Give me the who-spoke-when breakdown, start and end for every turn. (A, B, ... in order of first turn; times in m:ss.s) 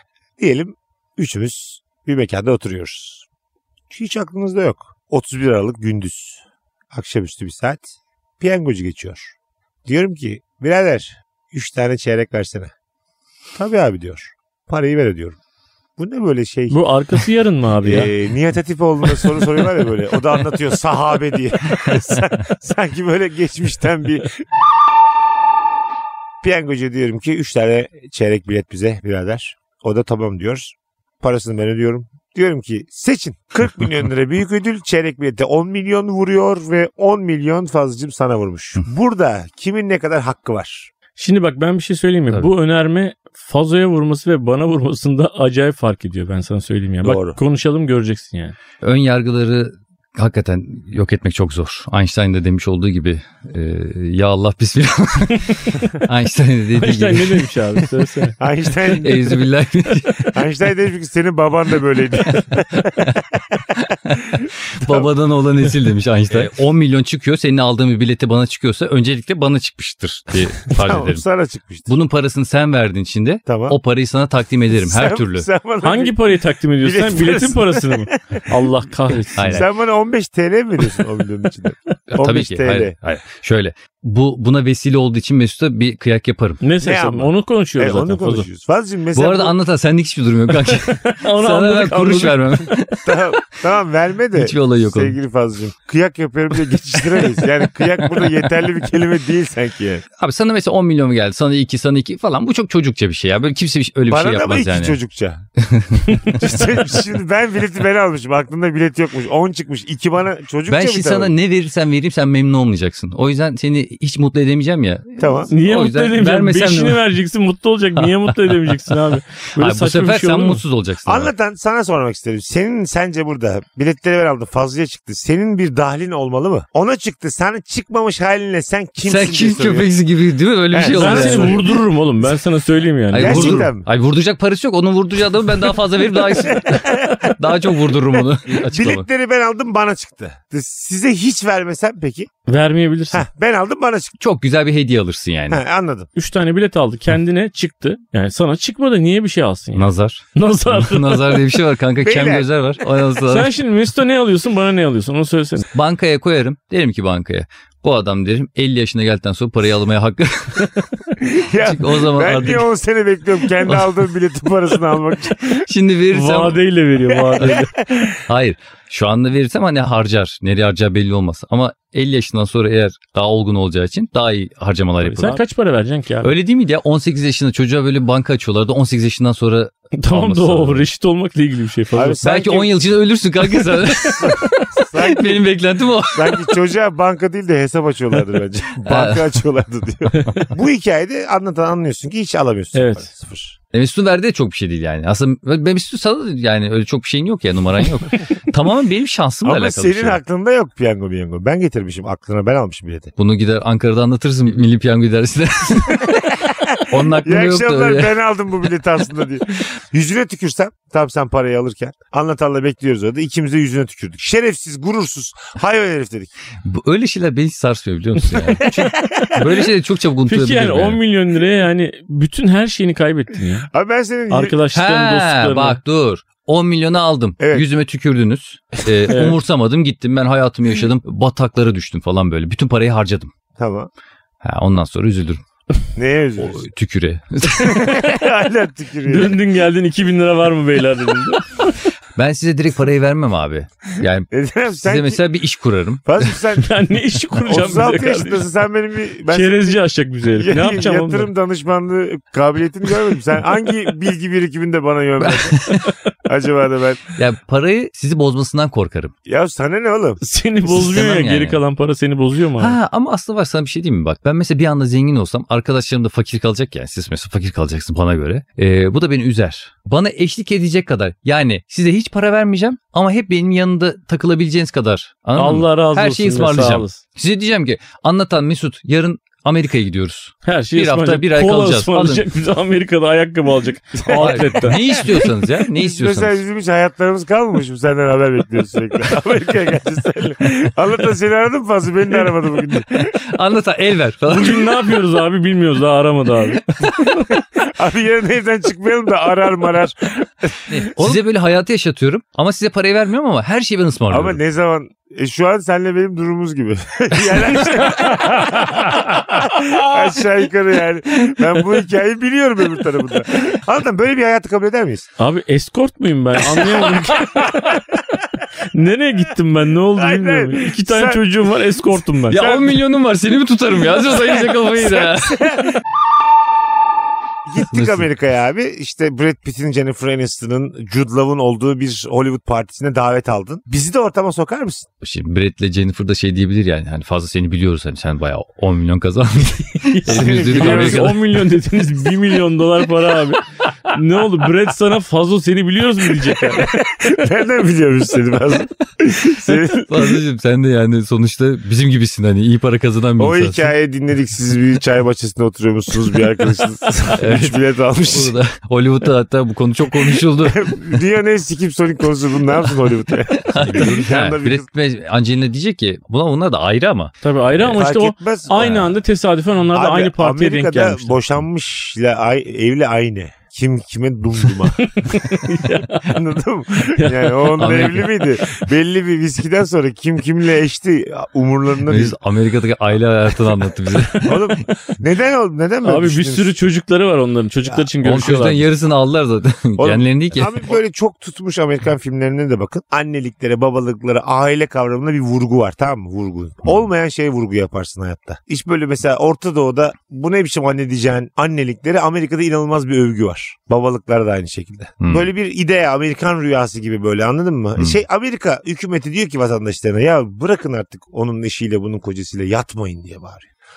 0:00.4-0:03.3 A
0:03.9-0:06.4 A
0:06.9-0:07.9 A
0:08.4-0:09.3 A
0:09.9-0:12.7 A
0:13.6-0:15.4 A
0:16.0-0:16.8 A
0:16.7-0:18.1 B
0:17.8-0:24.4 A
0:26.4-0:40.9 A
0:41.2-0:48.6 B
0:47.0-0:47.4 A
0:48.8-0:57.5 C
0:56.8-0:58.4 B
0:58.4-0:59.4 A
0:58.9-1:00.4 C
1:00.2-1:03.6 A
1:02.3-1:03.2 C
1:03.8-1:11.2 C
1:04.3-1:05.1 A
1:10.7-1:11.9 A
1:11.9-1:15.5 C
1:13.5-1:13.8 A
1:14.7-1:16.2 A
1:15.8-1:19.7 B
1:16.8-1:18.6 A
1:19.4-1:19.7 C
1:19.4-1:23.0 A
1:22.1-1:26.6 C
1:26.6-1:28.5 B
1:26.8-1:29.6 A
1:29.1-1:33.3 C
1:30.7-1:32.6 B
1:33.0-1:40.0 A
1:34.3-1:35.2 C
1:37.0-1:38.6 C
1:40.2-1:45.0 C
1:44.1-1:45.4 A
1:45.6-1:46.6 C
1:46.2-1:51.3 A
1:50.7-1:57.0 C
1:55.2-1:55.5 A
1:55.5-2:00.6 B
1:58.0-1:58.9 C
1:59.6-2:01.3 C
2:01.1-2:09.9 A
2:09.0-2:11.6 C
2:10.7-2:11.7 A
2:10.9-2:13.7 B
2:13.1-2:19.1 C
2:13.2-2:13.9 A
2:16.4-2:17.4 A
2:18.5-2:22.3 A
2:22.5-2:23.2 B
2:23.1-2:24.1 A
2:24.2-2:25.6 C
2:25.5-2:26.1 A
2:26.2-2:31.4 B
2:29.8-2:33.5 C
2:32.0-2:32.5 A
2:33.3-2:35.7 B
2:35.7-2:40.8 C
2:41.2-2:45.6 A
2:41.6-2:42.7 C
2:43.7-2:44.0 C
2:45.4-2:46.6 C
2:46.1-2:47.7 B
2:47.2-2:48.2 A
2:48.3-2:55.4 C
2:55.0-2:56.3 B
2:56.2-3:00.9 C
3:00.0-3:02.2 B
3:01.9-3:02.7 A
3:02.2-3:06.5 C
3:04.0-3:05.4 A
3:06.1-3:13.6 A
3:08.8-3:09.3 C
3:10.2-3:10.5 B
3:12.8-3:13.1 B
3:13.7-3:20.2 C
3:19.4-3:23.1 A
3:23.2-3:26.3 C
3:26.0-3:36.3 A
3:26.9-3:28.2 C
3:36.6-3:41.0 C
3:38.6-3:39.4 A
3:40.3-3:43.7 B
3:43.7-3:44.6 A
3:44.3-3:45.8 B
3:44.7-3:53.3 C
3:47.4-3:47.7 A
3:49.1-3:49.4 B
3:53.6-3:53.9 A
3:54.4-3:55.4 C
3:56.0-3:56.6 A
3:56.4-3:57.9 C
3:57.6-3:59.4 A
3:59.1-4:01.8 B
4:02.2-4:06.4 C
4:04.3-4:05.2 A
4:06.1-4:06.7 A
4:06.6-4:08.5 B
4:07.5-4:09.8 A
4:09.3-4:11.3 B
4:10.4-4:15.7 A
4:15.2-4:15.9 C
4:16.2-4:17.0 A
4:17.2-4:19.1 C
4:19.3-4:20.2 A
4:20.2-4:22.8 B
4:20.7-4:21.6 C
4:22.6-4:42.2 C
4:35.4-4:37.0 B
4:40.4-4:45.3 B
4:44.1-4:44.6 A
4:44.1-4:46.4 C
4:45.8-4:53.2 A
4:53.2-4:54.9 C
4:54.3-4:57.3 B
4:57.6-5:00.9 A
5:00.7-5:04.4 C
5:04.1-5:15.1 A
5:15.2-5:17.8 B
5:18.7-5:22.6 B
5:20.0-5:21.2 A
5:22.3-5:25.6 C
5:24.3-5:25.8 A
5:27.5-5:34.9 A
5:27.6-5:28.1 C
5:35.0-5:41.2 C
5:40.0-5:46.8 B
5:40.0-5:41.2 A
5:46.3-5:50.2 A
5:49.7-5:53.7 C
5:53.2-5:58.4 A
5:57.2-6:01.0 C
6:00.1-6:04.7 A
6:03.3-6:07.1 C
6:07.2-6:11.2 B
6:07.6-6:08.8 A
6:08.6-6:08.9 C
6:09.7-6:15.4 A
6:14.8-6:16.2 B
6:16.0-6:22.2 A
6:17.0-6:17.6 B
6:17.6-6:18.3 C
6:21.9-6:24.5 C
6:24.2-6:26.6 A
6:25.8-6:28.6 B
6:28.0-6:30.7 C
6:29.8-6:53.5 A
6:45.0-6:45.3 C